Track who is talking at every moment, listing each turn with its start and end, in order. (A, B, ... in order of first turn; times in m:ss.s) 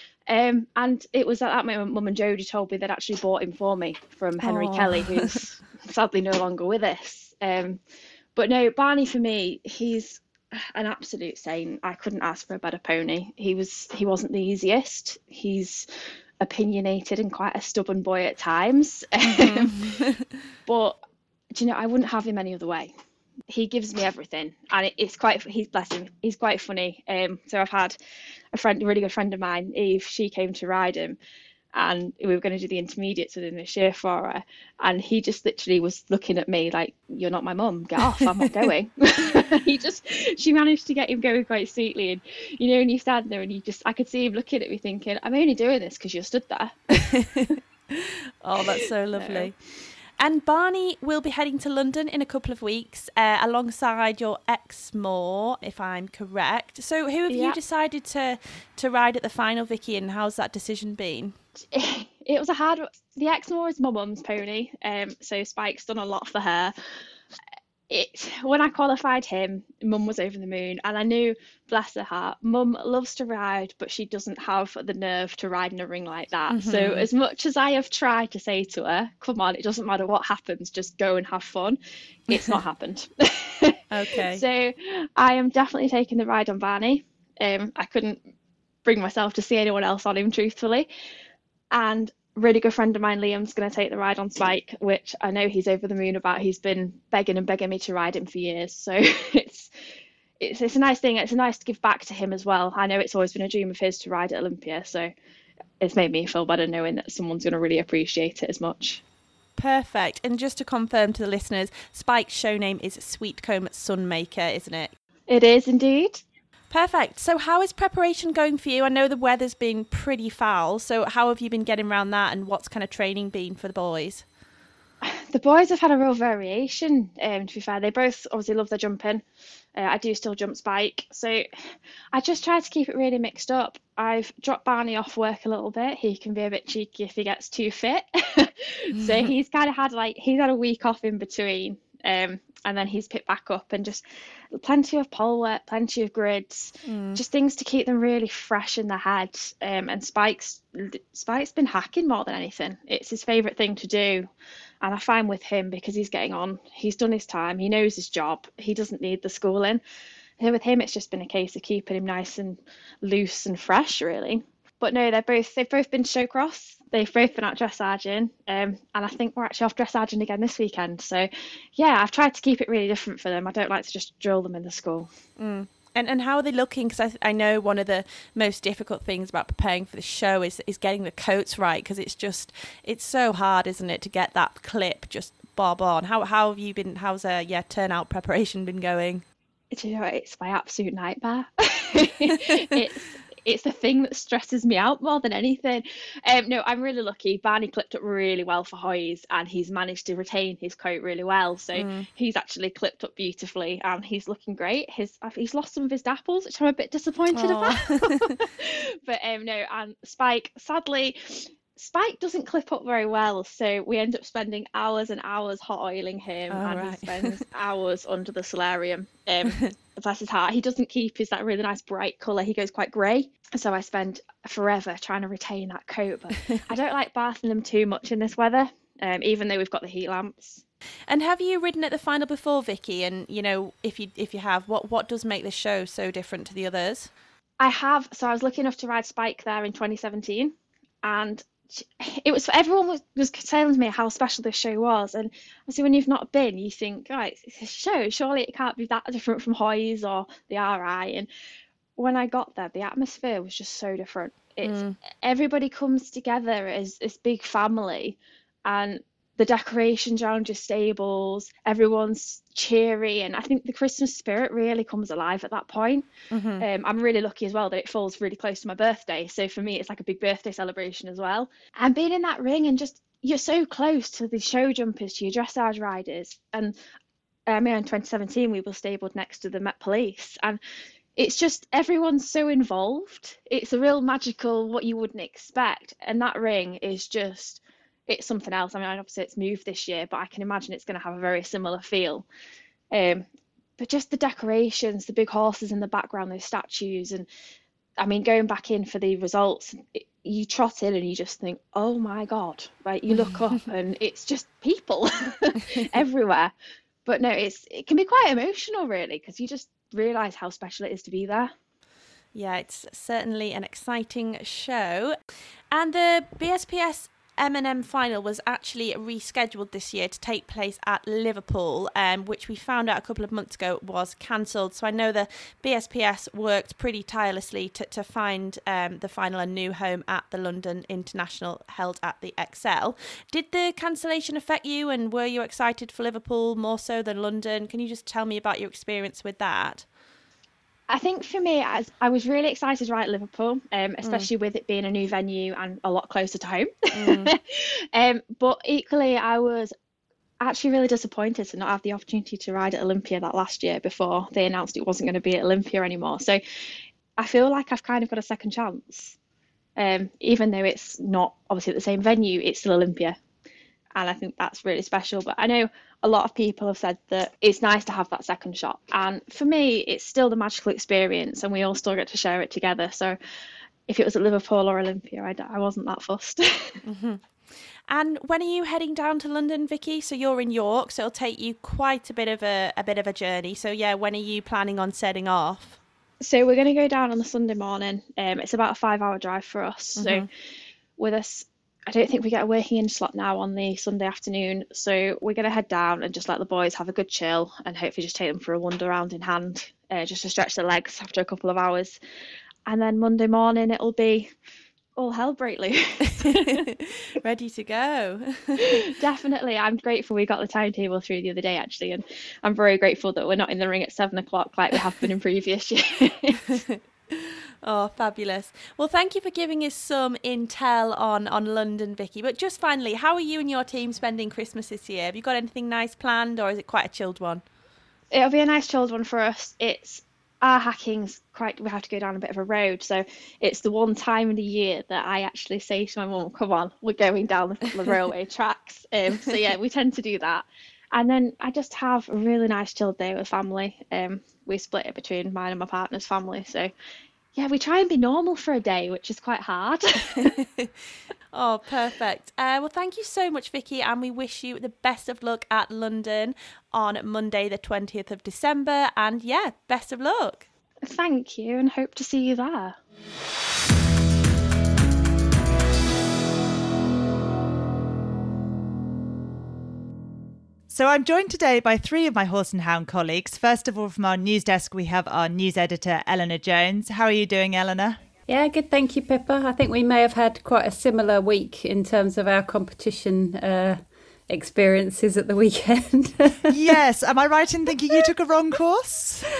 0:00.3-0:07.8 A
0:04.4-0:05.3 B
0:08.3-0:10.2 A
0:10.7-0:15.9 A
0:16.4-0:19.9 A
0:19.2-0:20.2 B
0:20.6-0:21.0 A
0:21.5-0:22.9 A
0:23.5-0:28.0 A
0:28.5-0:31.2 A
0:31.7-0:46.8 A
0:47.0-0:49.6 B
0:49.2-0:49.5 A
0:50.2-1:01.3 B
0:57.3-0:57.6 A
1:01.7-1:06.7 A
1:07.9-1:23.8 A
1:16.5-1:17.1 B
1:22.3-1:22.6 B
1:23.9-1:24.4 B
1:24.3-1:28.2 A
1:28.8-1:30.9 A
1:31.7-1:39.7 A
1:40.4-1:45.1 A
1:45.8-1:49.0 A
1:49.6-1:54.9 B
1:55.3-1:56.2 A
1:56.7-2:04.2 B
2:05.0-2:09.2 A
2:09.8-2:11.4 A
2:12.1-2:34.3 A
2:19.0-2:19.3 B
2:26.8-2:27.2 B
2:34.8-2:39.8 A
2:40.4-2:55.1 A
2:55.4-3:09.2 B
3:09.7-3:50.6 A
3:21.7-3:22.0 B
3:27.3-3:28.4 B
3:36.5-3:37.4 B
3:51.1-3:57.1 B
3:57.6-4:11.3 A
4:12.0-4:26.1 A
4:14.6-4:14.9 B
4:26.3-4:26.6 B
4:26.6-4:36.8 A
4:37.5-4:40.6 A
4:41.2-4:52.2 A
4:52.9-4:53.2 A
4:53.8-4:57.3 A
4:58.0-5:06.5 A
5:03.1-5:03.4 B
5:07.0-5:11.5 A
5:12.3-5:15.2 B
5:15.7-5:39.8 B
5:40.9-5:49.7 A
5:44.0-5:44.3 B
5:46.9-5:47.3 B
5:50.4-5:56.4 A
5:57.2-5:59.1 A
5:59.8-6:03.2 A
6:04.0-6:13.2 A
6:13.9-6:16.8 A
6:16.8-6:17.2 B
6:17.9-6:25.8 B
6:26.2-6:30.3 A
6:30.0-6:30.2 B
6:31.0-6:42.0 A
6:42.7-6:44.3 A
6:45.0-6:46.6 A
6:46.2-6:48.9 B
6:48.9-6:56.6 A
6:56.7-7:07.4 B
7:08.1-7:26.7 A
7:27.4-7:30.3 A
7:30.1-7:30.7 B
7:31.3-7:40.4 B
7:40.8-7:42.8 A
7:50.7-7:58.0 C
7:58.3-8:06.5 D
8:06.5-8:09.3 C